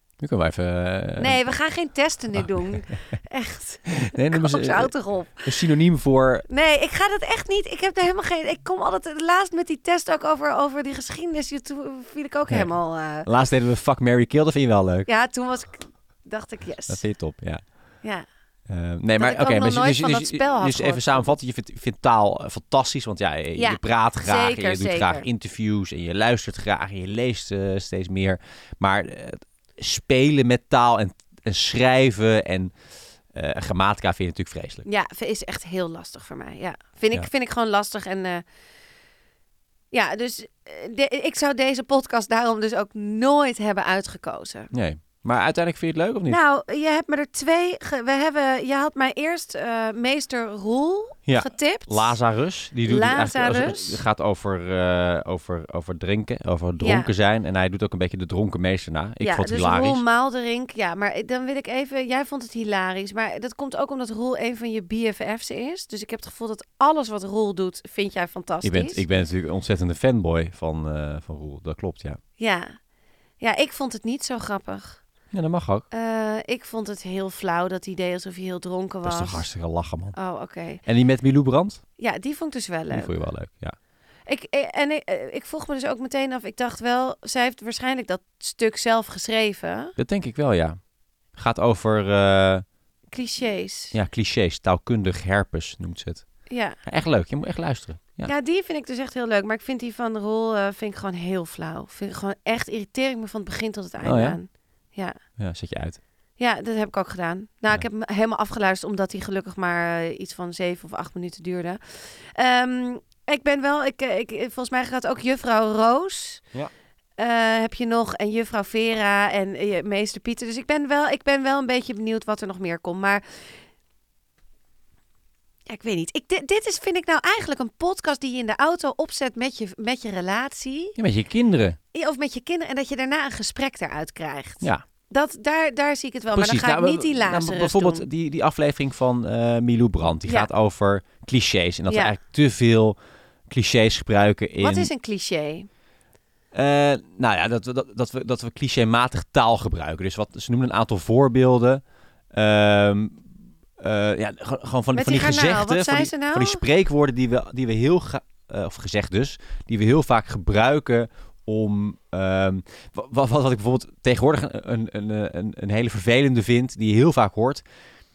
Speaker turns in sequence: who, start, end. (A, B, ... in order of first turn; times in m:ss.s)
0:00.2-0:01.4 A
0:01.2-0:05.5 B
0:02.4-0:02.7 A
0:04.0-0:06.4 A
0:06.5-0:13.3 B
0:13.2-0:15.1 A
0:15.0-0:17.0 B
0:16.9-0:17.6 A
0:18.7-0:32.7 A
0:19.2-0:21.4 B
0:23.6-0:25.3 B
0:33.3-0:34.8 A
0:34.8-0:38.4 B
0:39.9-0:44.7 B
0:44.7-0:46.4 A
0:46.3-0:52.2 B
0:51.3-1:00.0 A
0:52.8-0:54.0 B
0:56.8-0:57.1 B
0:59.2-1:09.0 B
1:08.6-1:12.2 A
1:12.4-1:12.8 B
1:13.4-1:15.0 B
1:15.3-1:15.8 A
1:15.9-1:19.5 B
1:19.0-1:20.2 A
1:20.1-1:20.8 B
1:20.8-1:21.8 A
1:22.0-1:23.1 B
1:22.9-1:23.8 A
1:24.2-1:29.9 B
1:30.0-1:30.8 A
1:31.3-1:32.6 A
1:33.1-1:33.9 B
1:33.9-1:36.2 A
1:36.5-1:36.8 B
1:36.8-1:38.3 A
1:38.2-1:45.2 B
1:44.0-1:44.4 A
1:45.4-1:46.0 A
1:46.4-1:56.4 B
1:57.2-2:03.2 B
2:05.7-2:11.0 B
2:11.0-2:11.8 A
2:11.9-2:18.0 B
2:16.3-2:23.0 A
2:20.2-2:20.5 B
2:21.9-2:22.1 B
2:23.5-2:24.9 A
2:24.6-2:25.7 B
2:26.5-2:31.8 A
2:32.3-2:33.2 A
2:33.8-2:47.6 A
2:34.9-2:36.6 B